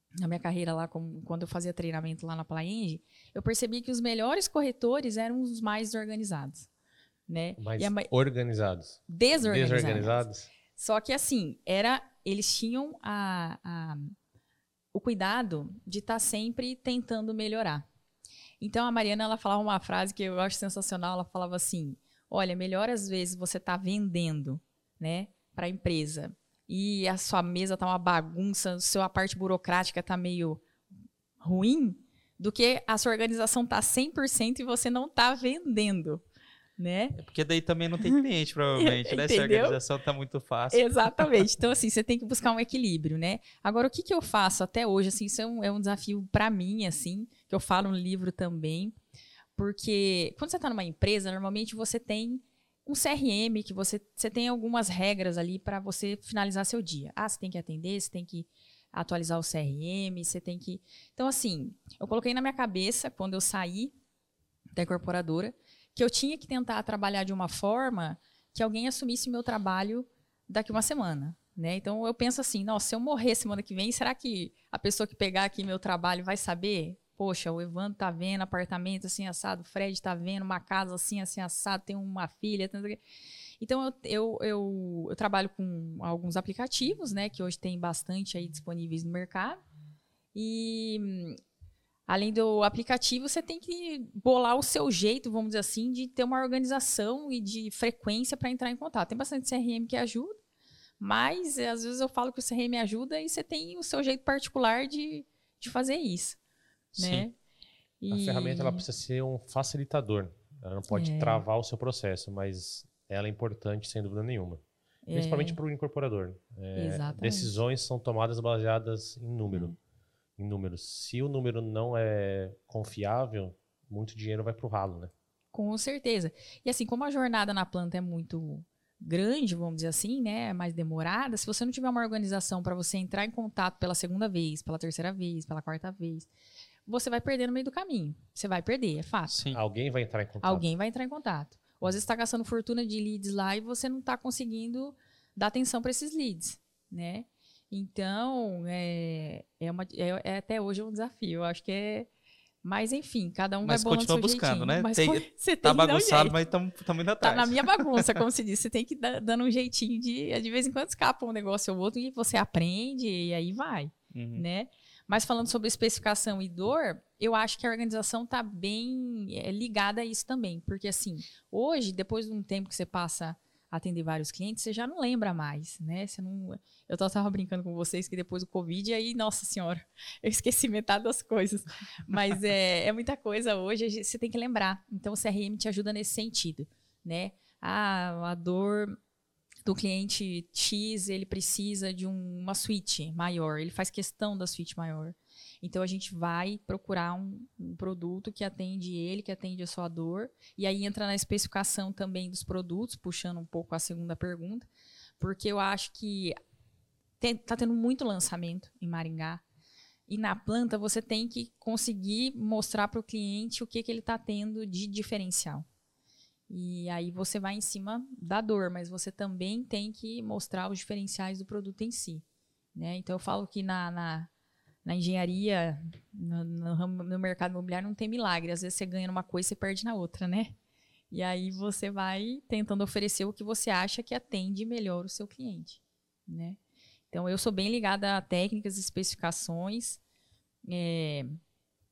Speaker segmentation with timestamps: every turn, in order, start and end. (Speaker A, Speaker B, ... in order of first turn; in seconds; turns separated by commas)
Speaker A: 0.2-6.7, Speaker A: 7.3-8.1, Speaker B: 7.6-10.5, Speaker A: 9.1-14.1, Speaker A: 14.9-17.8, Speaker A: 18.6-30.6, Speaker A: 31.4-36.2, Speaker A: 36.8-37.2, Speaker C: 37.2-41.3, Speaker A: 38.8-39.8, Speaker A: 40.7-48.9, Speaker A: 49.6-63.9, Speaker A: 64.7-83.0, Speaker A: 83.6-89.6, Speaker A: 90.3-91.4, Speaker A: 92.1-100.4, Speaker A: 101.0-106.4, Speaker C: 107.0-107.2, Speaker A: 107.0-107.3, Speaker A: 108.0-108.8, Speaker B: 108.1-119.7, Speaker A: 110.9-111.4, Speaker A: 115.1-115.6, Speaker A: 116.8-117.5, Speaker B: 120.4-125.1, Speaker A: 125.5-136.3, Speaker A: 136.9-139.4, Speaker C: 139.3-139.6, Speaker B: 139.5-140.7, Speaker A: 140.4-152.1, Speaker A: 152.6-156.3, Speaker C: 153.6-158.2, Speaker A: 157.2-189.0, Speaker C: 164.1-164.4, Speaker A: 189.6-204.7, Speaker A: 205.2-206.3, Speaker A: 207.2-209.4, Speaker A: 210.1-215.7, Speaker A: 216.5-224.3, Speaker A: 224.8-230.6, Speaker A: 231.1-236.6, Speaker A: 237.1-240.0, Speaker A: 240.7-241.3